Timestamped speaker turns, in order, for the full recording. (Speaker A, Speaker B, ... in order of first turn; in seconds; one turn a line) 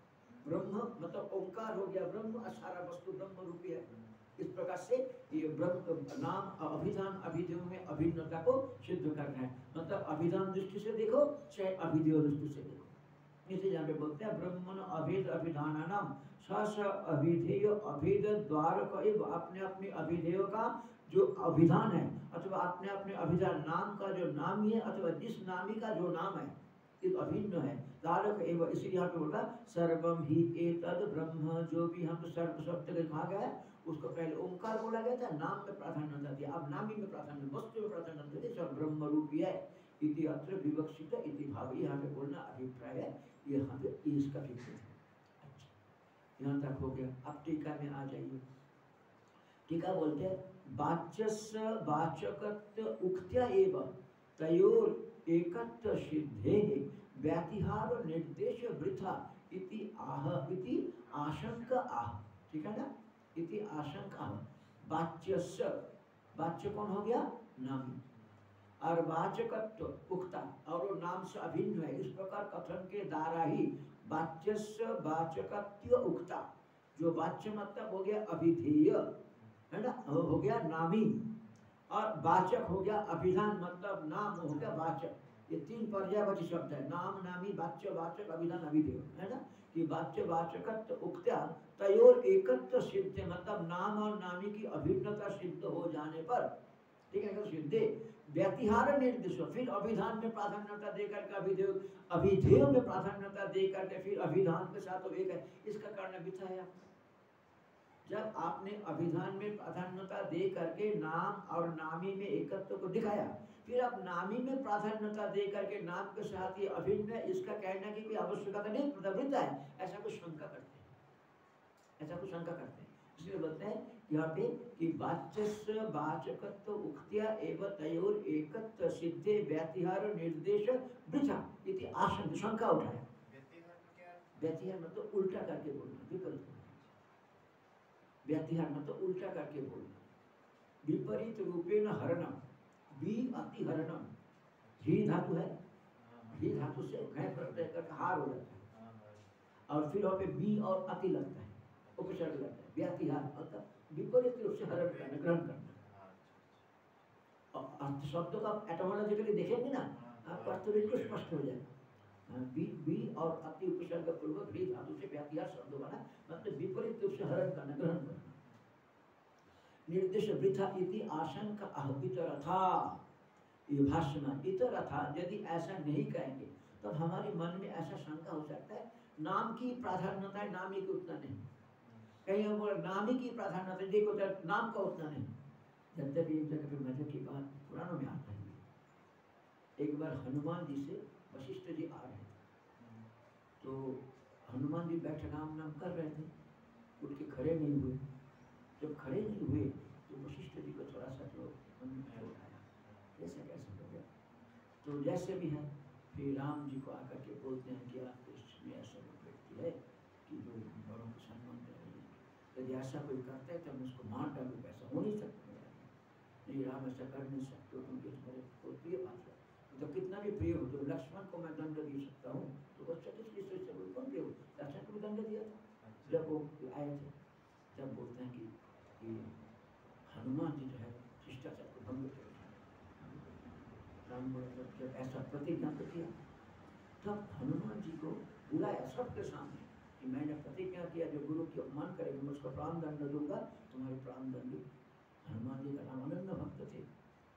Speaker A: 0.4-12.9
Speaker B: 3.9-4.2
Speaker A: 13.4-45.7
Speaker A: 46.4-48.4
Speaker A: 49.7-65.8
Speaker B: 61.1-61.9
Speaker A: 66.3-68.0
Speaker B: 68.1-68.7
Speaker A: 68.8-79.1
Speaker B: 79.3-79.6
Speaker A: 79.7-81.2
Speaker A: 81.9-96.5
Speaker B: 84.5-85.5
Speaker A: 97.1-106.9
Speaker A: 108.0-120.9
Speaker A: 122.0-133.0
Speaker B: 133.2-134.6
Speaker A: 134.3-136.7
Speaker A: 138.2-140.0
Speaker A: 140.8-142.4
Speaker A: 142.9-144.1
Speaker B: 144.6-144.9
Speaker A: 144.8-145.5
Speaker B: 145.9-149.3
Speaker A: 146.3-148.6
Speaker A: 149.7-155.7
Speaker B: 151.8-152.4
Speaker B: 154.7-156.7
Speaker A: 157.5-161.7
Speaker B: 159.9-162.2
Speaker A: 162.3-168.3
Speaker B: 166.3-166.6
Speaker A: 169.9-173.0
Speaker A: 173.7-181.5
Speaker B: 181.8-182.2
Speaker A: 182.2-185.3
Speaker A: 185.9-188.6
Speaker A: 189.8-192.4
Speaker B: 192.8-193.1
Speaker A: 193.6-196.3
Speaker A: 197.0-198.0
Speaker A: 198.8-202.6
Speaker B: 202.0-203.1
Speaker A: 203.2-204.1
Speaker A: 204.8-215.9
Speaker A: 216.4-227.1
Speaker B: 225.8-226.3
Speaker A: 227.7-229.3
Speaker A: 230.1-233.3
Speaker A: 234.0-236.1
Speaker A: 237.0-244.6
Speaker A: 245.2-246.8